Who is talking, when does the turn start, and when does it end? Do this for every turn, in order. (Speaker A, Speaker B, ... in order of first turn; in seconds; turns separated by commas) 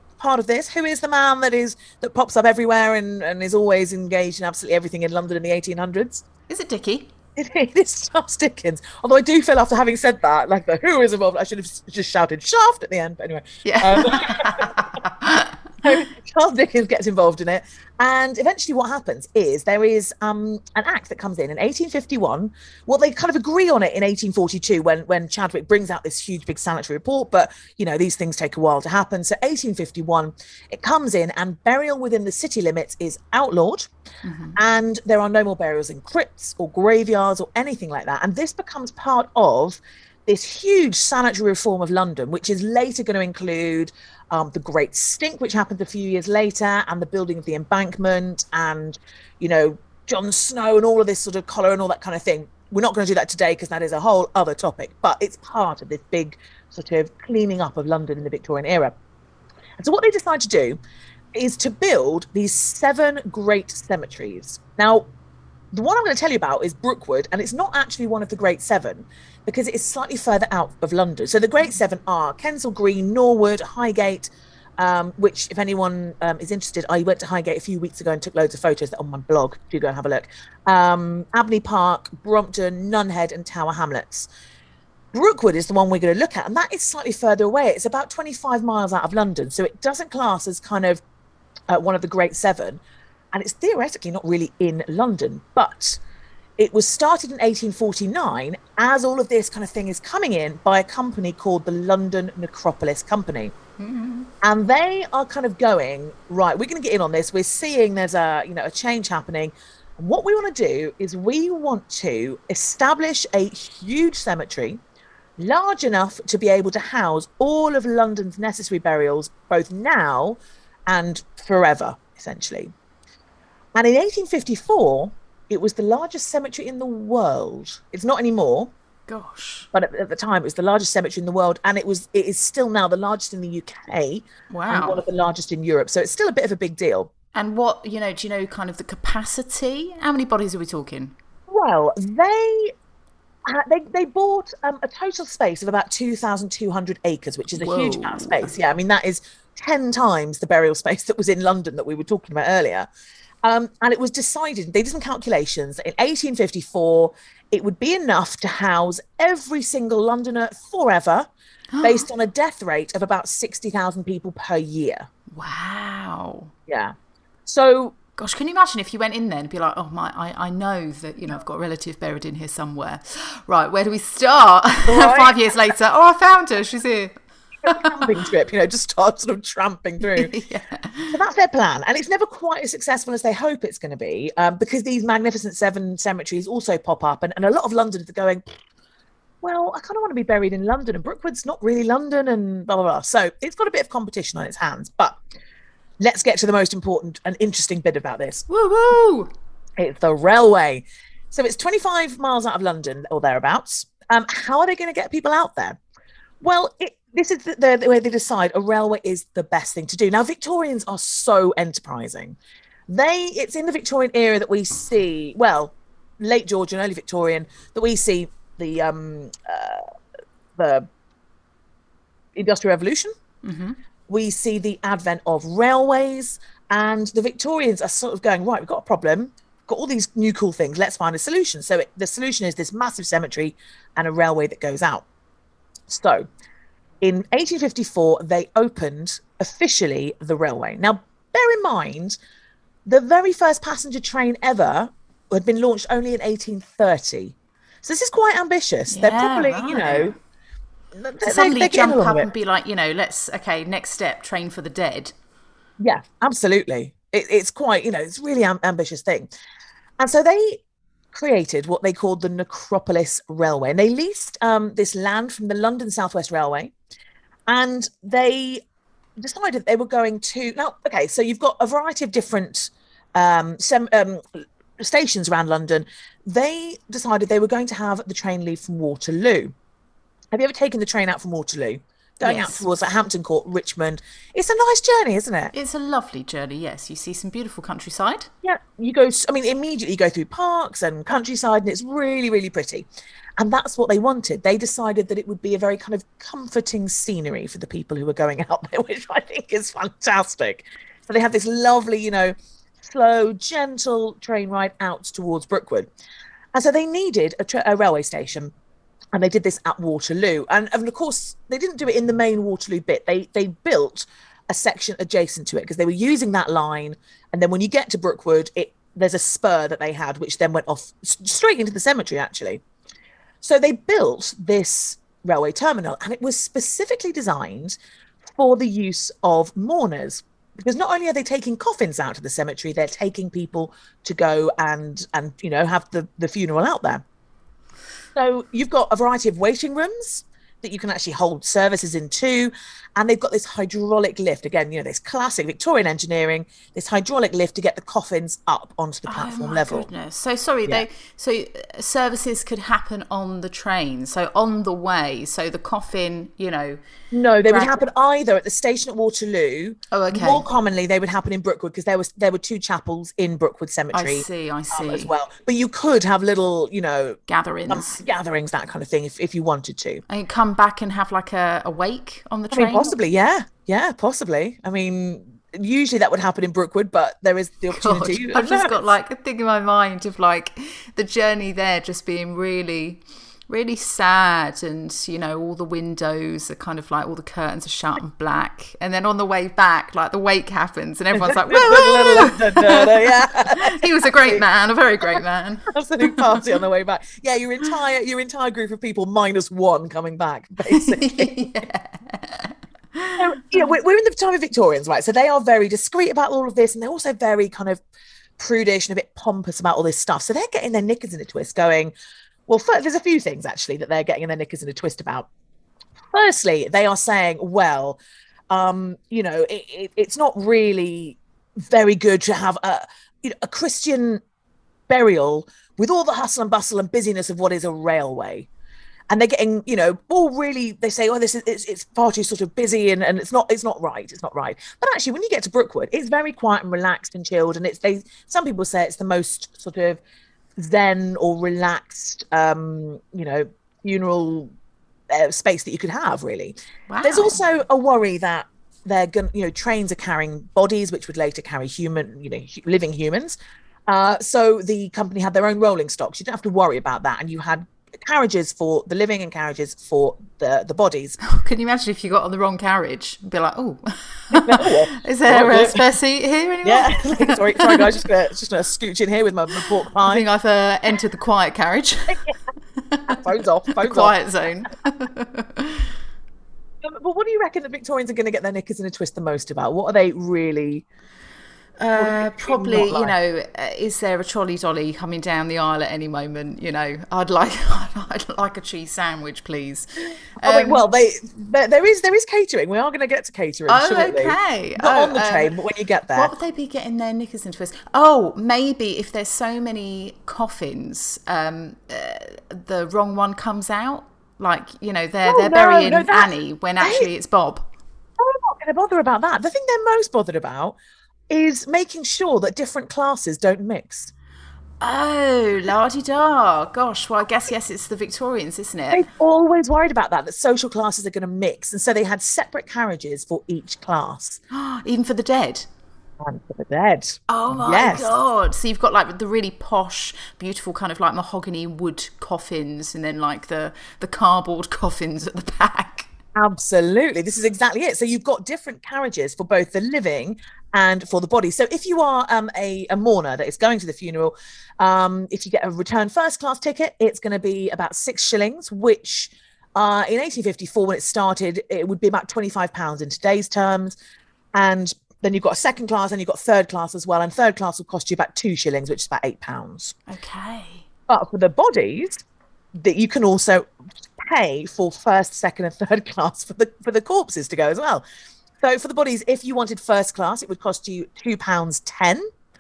Speaker A: 0.2-6.2, Speaker B: 6.5-7.1, Speaker A: 7.4-14.9, Speaker B: 13.6-15.6, Speaker A: 15.8-33.9, Speaker B: 34.2-34.6, Speaker A: 34.6-59.0, Speaker A: 59.8-60.8, Speaker A: 61.3-65.1, Speaker A: 65.7-84.3, Speaker A: 85.1-91.0, Speaker A: 91.7-92.8, Speaker A: 93.3-96.0, Speaker A: 96.6-103.5, Speaker B: 103.8-104.3, Speaker A: 104.4-114.8, Speaker A: 115.4-122.7, Speaker A: 123.8-128.7, Speaker B: 129.1-129.7, Speaker A: 129.7-137.1, Speaker B: 134.5-135.0, Speaker B: 137.3-141.2, Speaker A: 141.5-142.7, Speaker A: 143.5-152.9, Speaker B: 147.5-148.5, Speaker A: 153.4-161.3, Speaker B: 161.7-162.1, Speaker A: 161.8-165.1, Speaker B: 165.3-166.5, Speaker A: 166.7-166.9, Speaker A: 167.5-168.0, Speaker B: 168.2-178.1, Speaker A: 174.9-175.4, Speaker A: 177.6-180.3, Speaker B: 180.0-181.2, Speaker A: 181.1-188.4, Speaker A: 189.4-195.2, Speaker A: 196.0-198.5, Speaker B: 198.5-199.3, Speaker A: 199.8-205.8, Speaker A: 206.4-212.4, Speaker A: 212.9-219.9, Speaker A: 220.6-220.9, Speaker A: 222.3-223.1, Speaker B: 223.4-223.8, Speaker A: 224.1-235.1, Speaker A: 235.9-236.3, Speaker A: 237.0-242.2, Speaker A: 242.9-250.2, Speaker B: 248.9-250.2, Speaker A: 250.9-252.3, Speaker B: 251.2-255.1, Speaker A: 255.8-259.3, Speaker A: 260.0-260.6, Speaker A: 261.1-266.7, Speaker A: 267.5-268.6, Speaker A: 269.2-279.5, Speaker A: 280.3-285.5, Speaker B: 282.2-282.7, Speaker B: 285.5-288.3, Speaker A: 288.4-292.9, Speaker A: 293.4-305.9, Speaker A: 306.5-308.5, Speaker A: 309.1-322.6, Speaker A: 323.4-327.8, Speaker A: 328.3-337.0, Speaker A: 338.2-349.9, Speaker B: 349.1-356.8, Speaker A: 357.1-370.0, Speaker B: 357.5-357.8, Speaker B: 359.9-360.5, Speaker B: 363.9-365.1, Speaker B: 367.3-368.0, Speaker B: 370.1-372.9, Speaker A: 372.5-378.9, Speaker B: 377.7-396.5, Speaker A: 391.3-394.4, Speaker A: 395.7-401.3, Speaker B: 400.7-403.7, Speaker A: 403.2-407.8, Speaker A: 408.4-411.9, Speaker A: 412.5-415.3, Speaker A: 416.1-418.0, Speaker A: 418.5-424.2, Speaker A: 424.9-428.5, Speaker A: 429.1-440.0, Speaker A: 440.6-444.5, Speaker A: 445.1-461.2, Speaker B: 446.9-447.4, Speaker B: 461.2-468.0, Speaker A: 464.3-465.8, Speaker A: 466.6-470.2, Speaker B: 469.6-472.2, Speaker A: 472.1-472.4, Speaker B: 472.8-473.2, Speaker A: 473.1-474.1, Speaker B: 473.8-475.9, Speaker A: 476.8-480.9, Speaker B: 481.8-490.8, Speaker A: 481.9-483.1, Speaker A: 490.4-496.3, Speaker B: 493.7-495.5, Speaker B: 496.1-507.7, Speaker A: 505.3-507.1, Speaker A: 508.2-510.8, Speaker A: 511.3-514.1, Speaker B: 514.8-519.0, Speaker A: 518.9-524.4, Speaker B: 524.5-525.7, Speaker A: 526.2-528.1, Speaker B: 527.3-536.1, Speaker A: 536.4-554.0, Speaker A: 554.5-560.0, Speaker B: 560.1-560.9, Speaker A: 561.1-562.2, Speaker A: 562.8-568.0, Speaker A: 568.6-572.3